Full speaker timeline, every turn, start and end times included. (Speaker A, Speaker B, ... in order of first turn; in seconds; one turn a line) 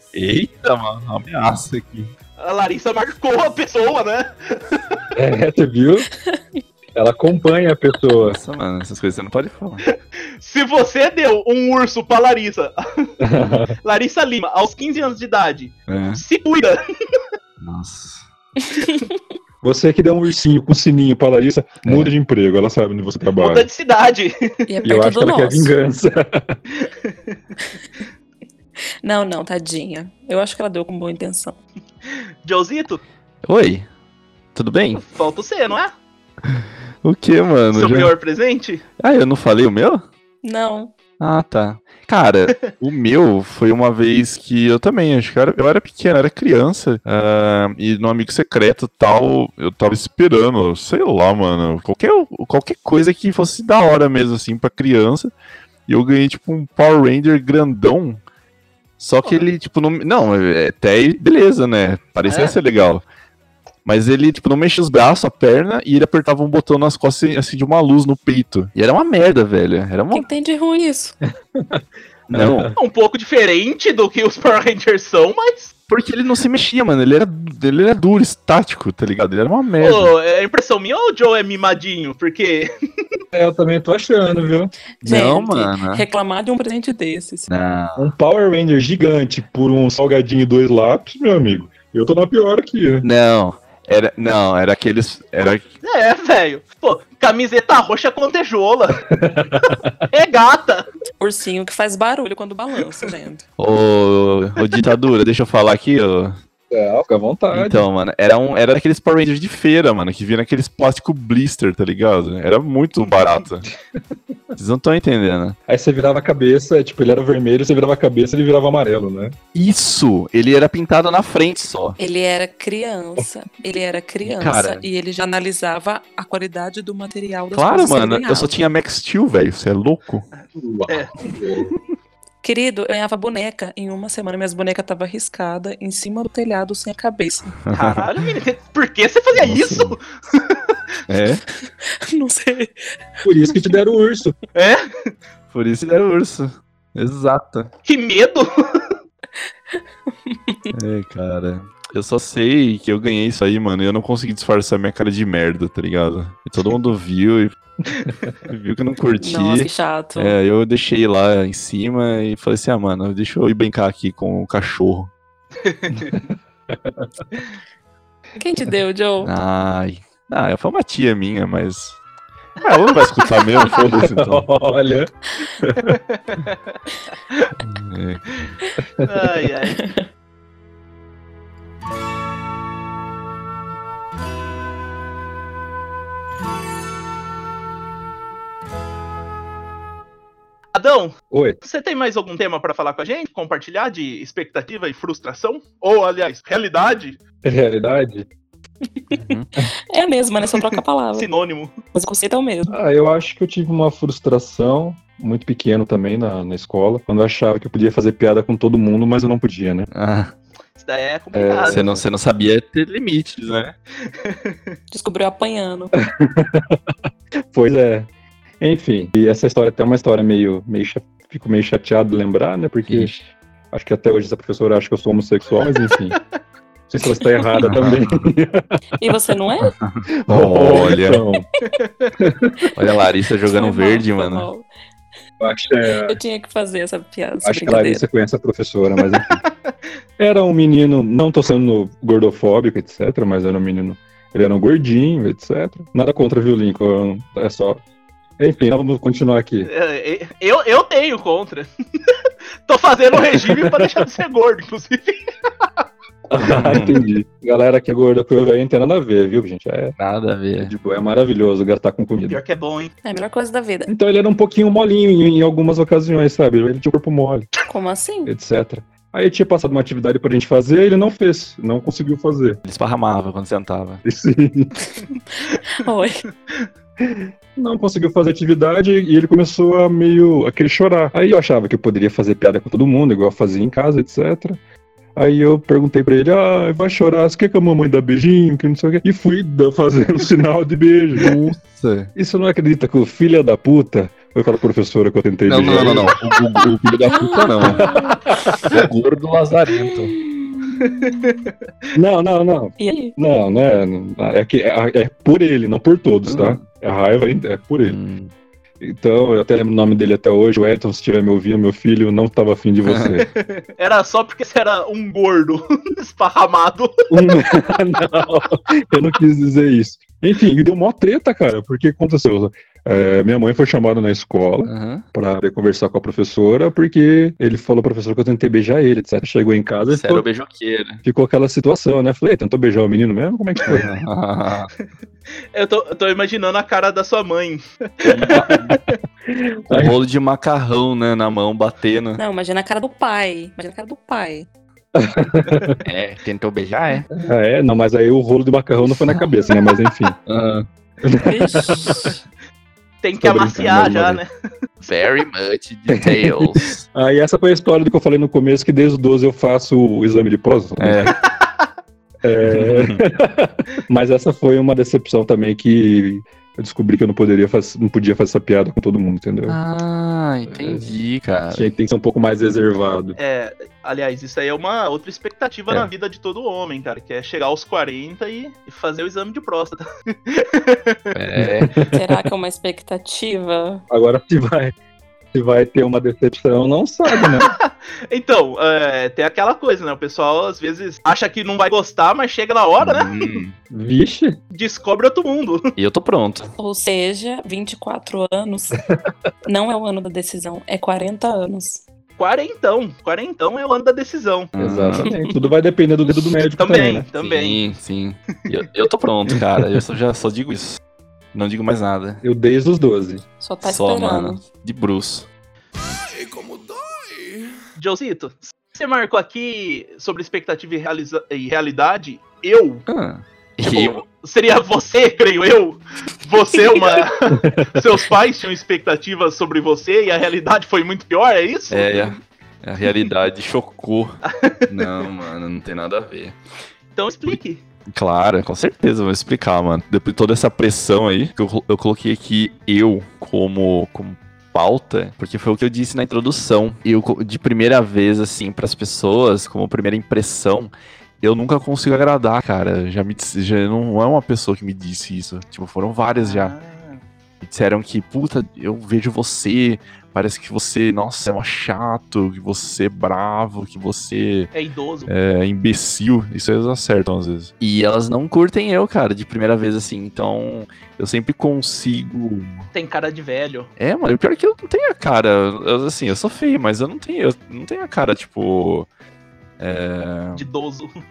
Speaker A: 0.1-2.1
Speaker B: 2.4-5.0
Speaker C: 5.2-6.1
Speaker D: 6.2-6.6
Speaker C: 7.0-8.4
Speaker A: 8.2-9.8
Speaker B: 10.4-13.1
Speaker C: 13.2-13.8
Speaker B: 13.8-16.8
Speaker A: 15.9-16.2
Speaker A: 17.6-18.2
Speaker D: 18.7-19.0
Speaker C: 19.6-23.7
Speaker A: 21.8-22.1
Speaker B: 23.4-24.6
Speaker D: 24.7-25.7
Speaker C: 24.9-26.6
Speaker B: 26.8-27.4
Speaker D: 29.0-31.6
Speaker B: 32.1-33.0
Speaker A: 33.5-33.9
Speaker A: 34.5-35.1
Speaker B: 35.0-35.9
Speaker A: 36.5-38.1
Speaker B: 37.7-38.8
Speaker A: 39.0-40.0
Speaker D: 40.4-40.9
Speaker A: 41.2-55.3
Speaker A: 55.9-58.2
Speaker A: 59.0-63.0
Speaker B: 62.3-62.5
Speaker A: 63.9-70.2
Speaker D: 70.1-71.2
Speaker C: 71.6-72.8
Speaker A: 72.3-72.7
Speaker B: 72.8-75.7
Speaker A: 75.9-80.1
Speaker B: 79.8-83.2
Speaker C: 83.3-84.7
Speaker D: 85.0-87.5
Speaker A: 85.0-86.0
Speaker A: 87.5-88.1
Speaker C: 88.0-93.1
Speaker A: 93.0-95.7
Speaker B: 95.8-99.0
Speaker C: 99.1-100.0
Speaker B: 100.1-100.9
Speaker D: 101.2-103.4
Speaker A: 103.6-106.4
Speaker C: 106.7-107.9
Speaker A: 107.5-113.7
Speaker A: 114.5-115.6
Speaker C: 115.7-119.4
Speaker A: 119.5-122.0
Speaker D: 122.0-128.5
Speaker A: 124.2-124.8
Speaker A: 127.5-130.3
Speaker B: 130.4-131.1
Speaker C: 130.6-131.7
Speaker D: 132.4-137.6
Speaker A: 137.7-138.0
Speaker B: 137.7-140.8
Speaker A: 139.3-140.0
Speaker A: 141.1-141.4
Speaker D: 141.8-142.8
Speaker C: 143.2-144.3
Speaker B: 144.6-145.1
Speaker A: 145.5-147.7
Speaker B: 147.8-148.9
Speaker D: 149.7-150.7
Speaker A: 150.7-157.6
Speaker A: 158.5-165.1
Speaker D: 159.2-160.4
Speaker B: 165.6-166.2
Speaker C: 166.7-167.2
Speaker D: 168.4-169.3
Speaker A: 169.2-172.0
Speaker A: 172.6-174.5
Speaker C: 174.0-176.0
Speaker B: 175.9-176.8
Speaker A: 177.7-178.5
Speaker B: 179.1-179.8
Speaker D: 179.8-180.1
Speaker B: 190.7-197.2
Speaker C: 191.3-191.6
Speaker C: 197.4-198.3
Speaker A: 199.1-199.5
Speaker D: 199.9-201.3
Speaker B: 201.2-201.7
Speaker D: 201.9-202.8
Speaker C: 202.7-209.9
Speaker A: 209.9-210.3
Speaker B: 210.8-211.8
Speaker C: 211.3-212.0
Speaker A: 211.7-213.8
Speaker B: 214.1-214.7
Speaker D: 214.9-215.9
Speaker C: 216.1-216.8
Speaker C: 217.5-226.2
Speaker C: 226.9-228.7
Speaker A: 227.6-228.2
Speaker D: 229.0-229.7
Speaker A: 229.8-231.2
Speaker C: 230.2-231.5
Speaker B: 231.8-232.1
Speaker C: 232.2-232.5
Speaker A: 232.8-234.5
Speaker D: 233.5-234.7
Speaker C: 235.4-236.2
Speaker D: 236.0-238.1
Speaker C: 237.4-239.4
Speaker C: 240.2-247.8
Speaker C: 248.4-249.7
Speaker B: 249.7-252.2
Speaker B: 252.7-255.2
Speaker C: 253.4-254.0
Speaker C: 256.3-259.9
Speaker A: 256.5-257.0
Speaker A: 260.0-260.7
Speaker C: 260.6-262.4
Speaker B: 262.3-262.9
Speaker D: 263.0-263.9
Speaker C: 263.9-267.5
Speaker D: 267.7-268.3
Speaker C: 268.2-272.6
Speaker A: 272.6-274.0
Speaker C: 274.0-274.7
Speaker D: 275.7-276.1
Speaker C: 277.0-284.6
Speaker C: 285.2-291.4
Speaker A: 291.2-292.1
Speaker C: 292.2-296.2
Speaker A: 295.5-297.9
Speaker D: 297.1-298.2
Speaker A: 298.6-300.2
Speaker D: 299.8-301.4
Speaker B: 300.8-301.5
Speaker C: 301.9-308.0
Speaker D: 302.8-303.2
Speaker A: 306.3-306.6
Speaker A: 307.9-308.3
Speaker C: 308.8-313.3
Speaker A: 312.9-313.2
Speaker B: 313.3-316.9
Speaker C: 317.1-330.3
Speaker A: 324.7-325.1
Speaker A: 329.9-331.0
Speaker C: 331.0-333.9
Speaker A: 333.7-334.7
Speaker B: 335.5-338.9
Speaker A: 338.1-338.8
Speaker C: 338.2-338.6
Speaker C: 339.3-340.0
Speaker A: 339.7-342.2
Speaker D: 342.2-344.5
Speaker C: 344.9-345.8
Speaker A: 345.9-347.1
Speaker C: 347.2-350.2
Speaker A: 350.3-350.7
Speaker C: 351.0-352.1
Speaker D: 351.2-352.2
Speaker B: 353.0-354.3
Speaker C: 353.2-354.2
Speaker A: 354.9-356.8
Speaker C: 356.0-361.1
Speaker A: 360.8-361.1
Speaker B: 361.4-361.7
Speaker C: 362.2-369.6
Speaker A: 362.5-363.0
Speaker A: 369.5-371.7
Speaker C: 370.5-370.9
Speaker C: 371.5-373.2
Speaker B: 373.2-381.0
Speaker A: 381.1-381.7
Speaker C: 381.4-382.2
Speaker D: 381.9-383.8
Speaker C: 383.9-384.7
Speaker C: 385.3-387.6
Speaker B: 387.1-393.4
Speaker A: 392.8-393.5
Speaker C: 393.7-394.4
Speaker B: 394.5-395.6
Speaker A: 395.8-396.5
Speaker D: 396.6-398.8
Speaker D: 399.5-401.8
Speaker B: 402.2-404.5
Speaker A: 404.6-405.1
Speaker C: 404.6-407.1
Speaker D: 405.1-405.4
Speaker B: 406.6-407.6
Speaker A: 407.2-410.8
Speaker A: 411.3-412.2
Speaker C: 412.2-413.2
Speaker D: 413.4-414.4
Speaker A: 413.6-415.3
Speaker B: 417.8-422.9
Speaker A: 422.9-424.0
Speaker B: 423.6-431.8
Speaker C: 427.3-427.8
Speaker A: 431.7-436.4
Speaker B: 434.3-434.6
Speaker B: 437.0-437.6
Speaker A: 437.9-456.6
Speaker B: 456.2-457.0
Speaker A: 457.4-464.5
Speaker B: 464.5-465.1
Speaker A: 465.1-472.7
Speaker B: 472.7-473.7
Speaker A: 473.8-478.9
Speaker A: 479.6-480.4
Speaker B: 480.4-480.9